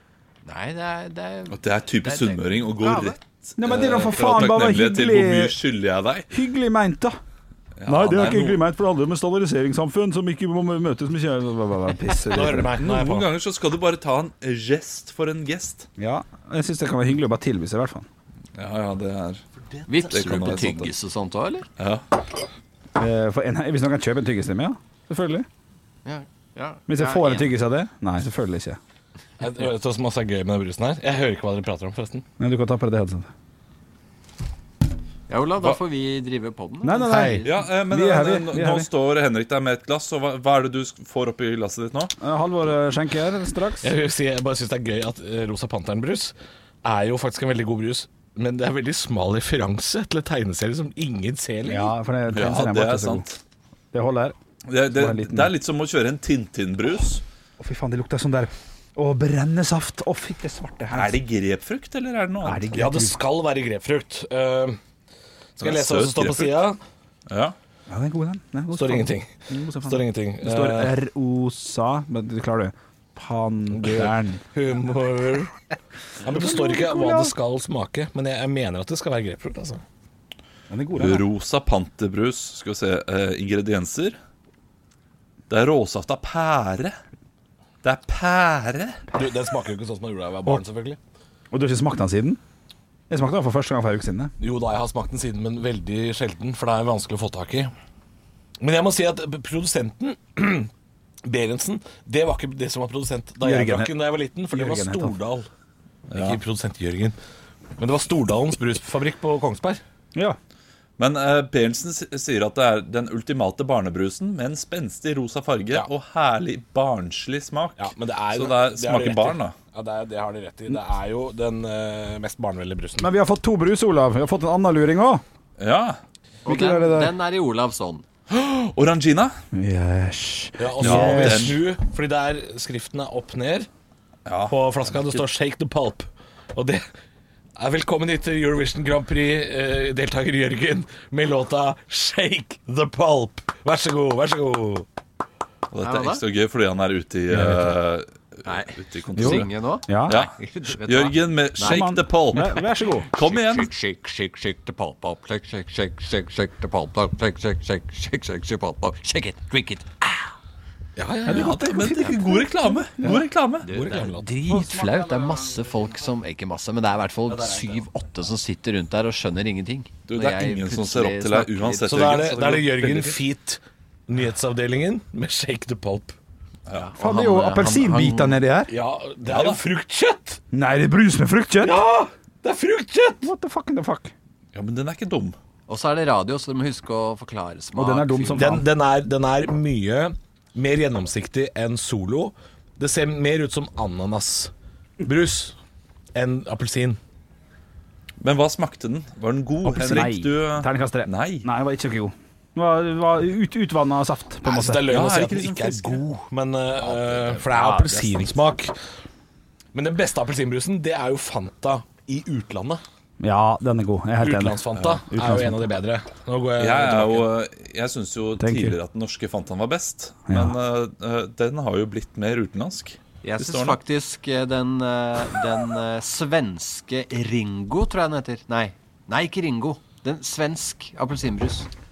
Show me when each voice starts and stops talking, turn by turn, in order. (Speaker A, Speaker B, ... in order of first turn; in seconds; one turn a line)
Speaker A: 0.4-3.2
Speaker B: 1.5-6.3
Speaker C: 3.6-5.6
Speaker C: 6.3-7.2
Speaker B: 7.8-8.6
Speaker C: 7.9-12.8
Speaker D: 12.3-13.3
Speaker B: 12.8-15.9
Speaker C: 16.0-18.1
Speaker B: 18.6-19.4
Speaker A: 19.9-21.7
Speaker B: 20.1-20.9
Speaker C: 23.0-25.5
Speaker A: 26.1-27.6
Speaker C: 26.9-28.8
Speaker D: 29.4-32.3
Speaker C: 32.4-33.3
Speaker A: 35.3-37.5
Speaker C: 36.8-38.9
Speaker D: 37.1-37.5
Speaker B: 37.5-42.1
Speaker C: 42.2-43.9
Speaker D: 43.8-51.9
Speaker C: 51.7-53.2
Speaker B: 52.3-53.4
Speaker C: 53.9-54.4
Speaker B: 54.7-57.2
Speaker C: 54.9-55.5
Speaker C: 57.6-61.2
Speaker B: 60.9-62.8
Speaker C: 62.4-63.2
Speaker D: 62.7-64.8
Speaker D: 65.6-66.8
Speaker B: 65.6-66.6
Speaker B: 67.3-67.5
Speaker C: 67.9-74.4
Speaker D: 68.7-71.0
Speaker D: 73.7-75.5
Speaker D: 76.2-79.8
Speaker C: 76.2-77.3
Speaker C: 80.7-81.3
Speaker B: 81.0-84.2
Speaker B: 85.5-87.0
Speaker B: 87.8-89.1
Speaker D: 89.1-91.0
Speaker C: 91.5-92.4
Speaker C: 93.1-94.3
Speaker D: 94.4-97.7
Speaker D: 98.6-100.7
Speaker D: 101.2-105.5
Speaker C: 103.4-104.0
Speaker C: 104.5-105.1
Speaker D: 106.1-107.2
Speaker B: 106.1-106.4
Speaker D: 107.8-109.8
Speaker B: 111.0-119.5
Speaker D: 117.8-123.1
Speaker C: 123.0-125.2
Speaker B: 125.6-126.0
Speaker C: 126.5-127.1
Speaker A: 126.5-128.1
Speaker B: 128.3-129.3
Speaker C: 129.5-131.6
Speaker D: 130.6-133.7
Speaker B: 130.8-131.6
Speaker B: 134.3-135.2
Speaker D: 134.5-136.8
Speaker D: 137.6-144.9
Speaker B: 145.7-149.5
Speaker A: 145.8-146.2
Speaker C: 147.3-147.8
Speaker A: 148.5-151.9
Speaker C: 149.2-150.2
Speaker B: 150.1-153.7
Speaker C: 151.6-153.1
Speaker A: 153.1-160.3
Speaker D: 161.0-162.0
Speaker B: 161.3-163.7
Speaker C: 161.6-162.0
Speaker A: 163.6-172.1
Speaker D: 163.6-164.3
Speaker B: 170.1-173.2
Speaker D: 171.8-176.2
Speaker A: 176.8-178.4
Speaker C: 177.0-178.7
Speaker D: 178.7-180.4
Speaker B: 179.3-179.6
Speaker C: 180.5-181.8
Speaker D: 181.6-183.3
Speaker C: 183.2-184.1
Speaker B: 184.5-185.4
Speaker A: 185.7-188.6
Speaker C: 187.8-188.7
Speaker D: 188.3-195.6
Speaker D: 196.2-197.0
Speaker B: 198.2-201.5
Speaker C: 199.6-204.9
Speaker D: 204.4-208.7
Speaker B: 204.9-206.0
Speaker C: 207.0-208.4
Speaker D: 209.7-212.8
Speaker C: 213.2-215.6
Speaker D: 214.2-217.3
Speaker B: 214.8-215.0
Speaker B: 216.6-223.8
Speaker C: 218.4-218.8
Speaker C: 220.3-220.6
Speaker A: 223.2-231.7